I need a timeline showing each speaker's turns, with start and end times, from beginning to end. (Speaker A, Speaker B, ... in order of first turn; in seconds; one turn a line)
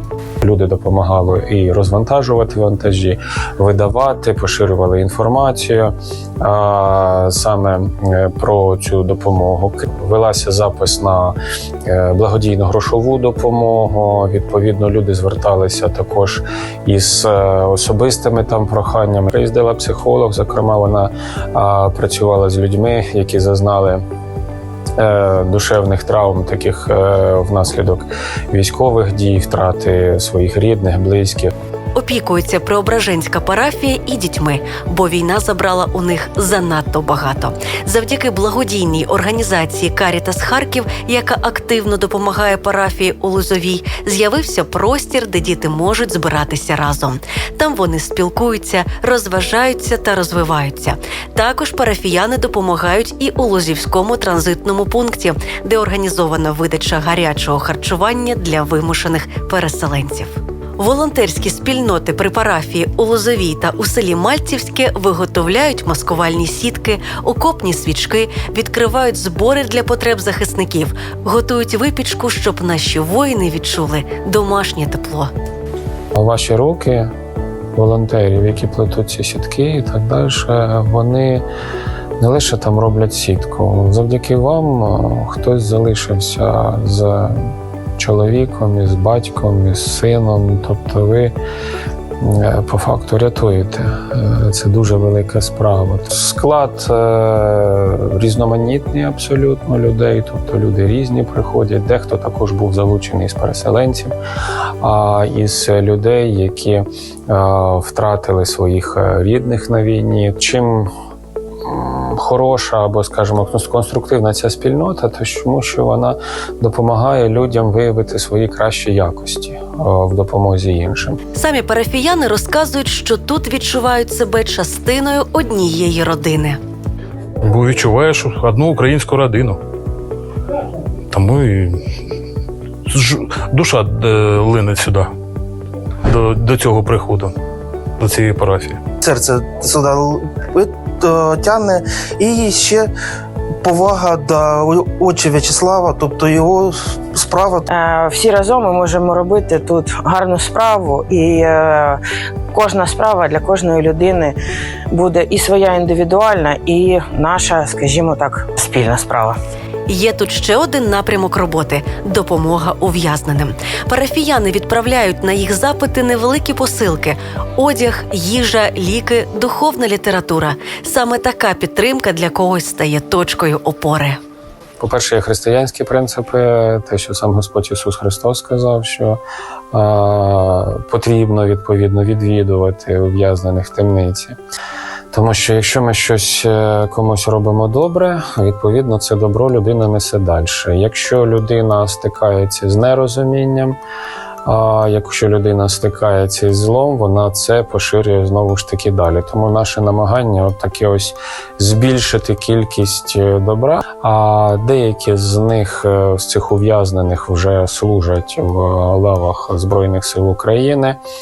Speaker A: 0.4-24.0
Speaker A: 25.0-31.5
Speaker B: 31.9-75.3
Speaker A: 76.2-77.1
Speaker A: 77.8-81.5
Speaker A: 82.2-91.3
Speaker A: 92.2-104.2
Speaker A: 104.8-110.9
Speaker A: 111.7-121.2
Speaker B: 121.3-126.6
Speaker C: 127.4-129.6
Speaker C: 131.1-131.8
Speaker C: 132.9-135.1
Speaker C: 136.1-137.3
Speaker C: 138.0-138.8
Speaker D: 139.0-142.9
Speaker D: 143.6-147.7
Speaker E: 147.7-152.0
Speaker E: 152.5-154.4
Speaker E: 154.9-159.4
Speaker B: 159.9-174.2
Speaker A: 174.8-179.2
Speaker A: 179.7-184.4
Speaker A: 185.1-193.8
Speaker A: 194.4-211.0